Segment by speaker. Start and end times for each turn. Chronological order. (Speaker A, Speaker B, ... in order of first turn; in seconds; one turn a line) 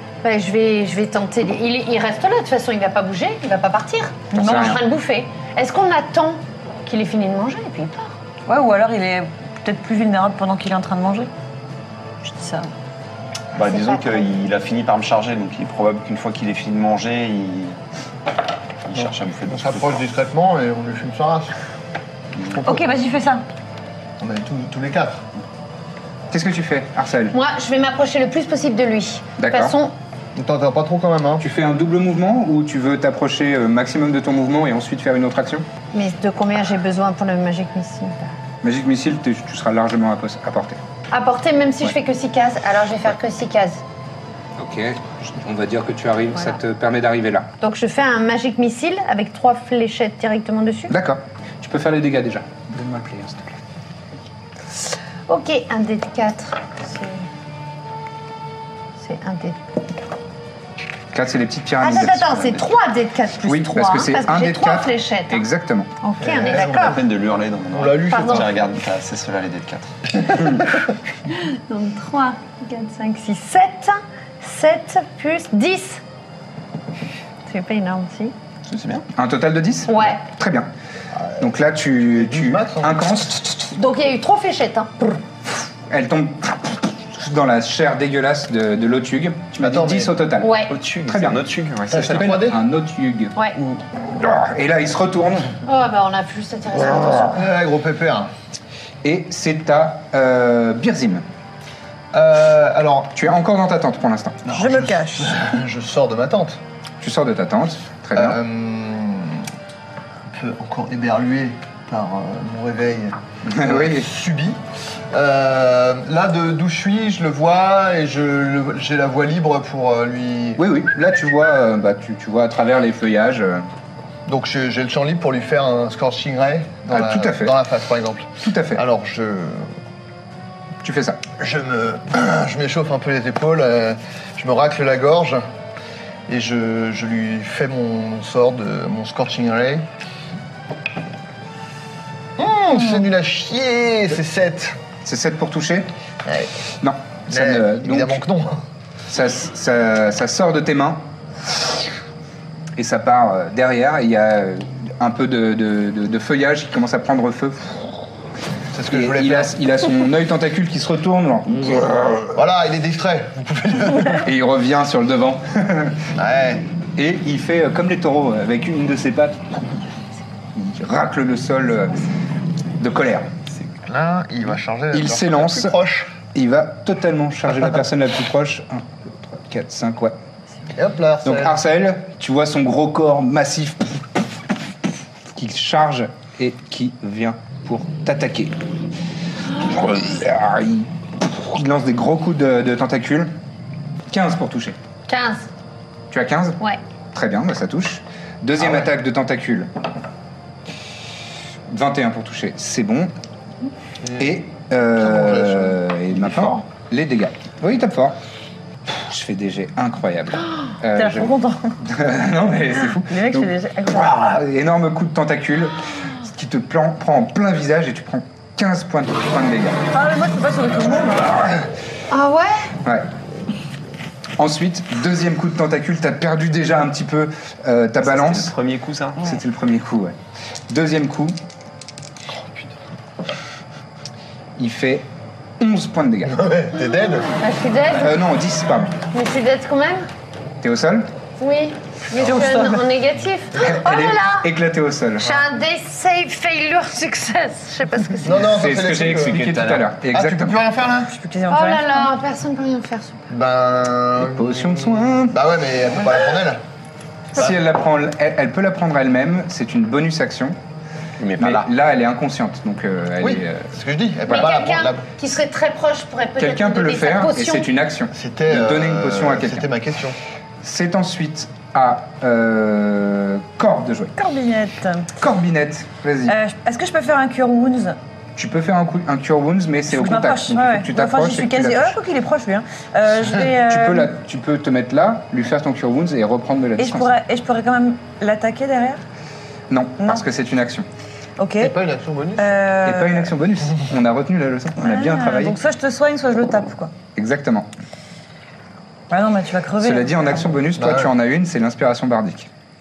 Speaker A: 0.2-8.2
Speaker B: 4.3-4.8
Speaker C: 4.4-4.8
Speaker B: 8.4-11.3
Speaker B: 12.2-12.7
Speaker D: 13.5-17.8
Speaker A: 13.6-14.2
Speaker D: 18.8-20.0
Speaker E: 18.9-21.5
Speaker E: 22.5-22.8
Speaker B: 22.6-23.4
Speaker E: 24.2-25.2
Speaker C: 26.3-27.3
Speaker A: 27.3-29.9
Speaker C: 29.4-29.8
Speaker E: 30.3-31.5
Speaker C: 31.4-35.6
Speaker A: 35.9-38.3
Speaker C: 38.6-40.8
Speaker A: 41.1-43.8
Speaker C: 44.6-47.5
Speaker A: 47.6-50.9
Speaker C: 50.9-53.6
Speaker A: 54.7-57.3
Speaker A: 59.0-59.6
Speaker C: 61.1-62.6
Speaker A: 61.8-65.5
Speaker C: 63.4-65.9
Speaker A: 66.0-67.0
Speaker E: 66.2-67.0
Speaker D: 66.3-70.6
Speaker E: 67.7-68.6
Speaker A: 68.1-68.5
Speaker A: 71.2-76.0
Speaker A: 77.5-78.3
Speaker D: 78.7-79.1
Speaker C: 79.1-80.7
Speaker A: 79.9-80.2
Speaker E: 81.1-81.5
Speaker C: 81.4-83.6
Speaker E: 82.0-83.1
Speaker A: 83.6-85.0
Speaker C: 85.6-90.5
Speaker E: 89.6-90.2
Speaker A: 90.4-90.7
Speaker D: 90.7-92.3
Speaker C: 91.0-95.5
Speaker E: 91.9-92.6
Speaker A: 95.6-97.4
Speaker E: 97.1-98.3
Speaker C: 99.0-101.2
Speaker E: 102.1-103.1
Speaker C: 103.1-104.4
Speaker E: 104.4-106.6
Speaker B: 104.5-105.5
Speaker C: 107.0-108.4
Speaker E: 108.1-109.5
Speaker E: 110.3-120.6
Speaker C: 113.5-114.1
Speaker C: 120.6-123.7
Speaker E: 124.3-129.7
Speaker C: 126.9-127.5
Speaker C: 128.4-128.8
Speaker C: 130.8-131.2
Speaker E: 131.4-135.4
Speaker E: 136.3-139.9
Speaker E: 142.4-144.8
Speaker C: 145.0-145.9
Speaker E: 146.2-146.5
Speaker C: 146.8-148.2
Speaker E: 147.3-148.6
Speaker C: 149.1-151.0
Speaker C: 152.8-158.0
Speaker E: 158.7-159.5
Speaker C: 158.9-162.3
Speaker E: 162.3-164.3
Speaker C: 164.2-166.0
Speaker E: 166.2-166.6
Speaker C: 167.0-169.4
Speaker C: 170.5-172.0
Speaker C: 172.8-173.3
Speaker E: 173.8-176.1
Speaker C: 174.9-175.7
Speaker C: 176.3-180.2
Speaker E: 180.7-181.6
Speaker C: 181.2-184.0
Speaker C: 185.3-188.6
Speaker C: 189.6-193.3
Speaker C: 194.1-194.8
Speaker A: 195.1-195.5
Speaker C: 196.1-196.6
Speaker C: 197.1-199.7
Speaker C: 201.7-203.1
Speaker E: 204.0-204.3
Speaker C: 204.2-208.2
Speaker E: 205.0-205.8
Speaker D: 206.2-206.6
Speaker C: 208.9-219.8
Speaker B: 210.9-211.8
Speaker B: 212.8-214.4
Speaker B: 219.9-221.4
Speaker A: 222.1-222.7
Speaker C: 224.4-228.5
Speaker D: 228.0-229.2
Speaker C: 229.2-230.2
Speaker C: 230.7-231.4
Speaker E: 232.3-232.8
Speaker C: 234.6-235.1
Speaker C: 235.6-236.4
Speaker E: 236.2-237.3
Speaker A: 237.3-238.2
Speaker C: 237.9-239.0
Speaker A: 239.1-240.1
Speaker C: 240.6-241.1
Speaker A: 241.4-244.5
Speaker B: 242.1-242.8
Speaker C: 243.6-245.3
Speaker A: 245.2-248.5
Speaker E: 248.2-249.4
Speaker C: 248.5-250.6
Speaker D: 248.9-249.9
Speaker E: 250.1-251.1
Speaker B: 251.1-252.1
Speaker A: 251.5-253.2
Speaker E: 253.3-256.6
Speaker C: 254.2-255.4
Speaker C: 257.3-260.6
Speaker D: 261.2-261.7
Speaker C: 261.4-263.7
Speaker E: 263.2-265.1
Speaker A: 264.3-267.7
Speaker C: 266.4-269.6
Speaker E: 268.1-270.2
Speaker C: 270.6-274.1
Speaker B: 274.1-275.1
Speaker C: 275.2-276.3
Speaker B: 276.2-278.0
Speaker C: 278.4-282.0
Speaker B: 279.9-284.1
Speaker C: 283.6-287.1
Speaker B: 286.8-289.0
Speaker C: 289.7-290.9
Speaker B: 290.0-290.2
Speaker B: 291.4-291.7
Speaker E: 291.6-292.6
Speaker B: 292.4-293.3
Speaker C: 292.8-295.6
Speaker B: 294.8-296.9
Speaker C: 297.1-297.7
Speaker B: 299.1-300.5
Speaker C: 299.8-302.5
Speaker E: 300.8-301.1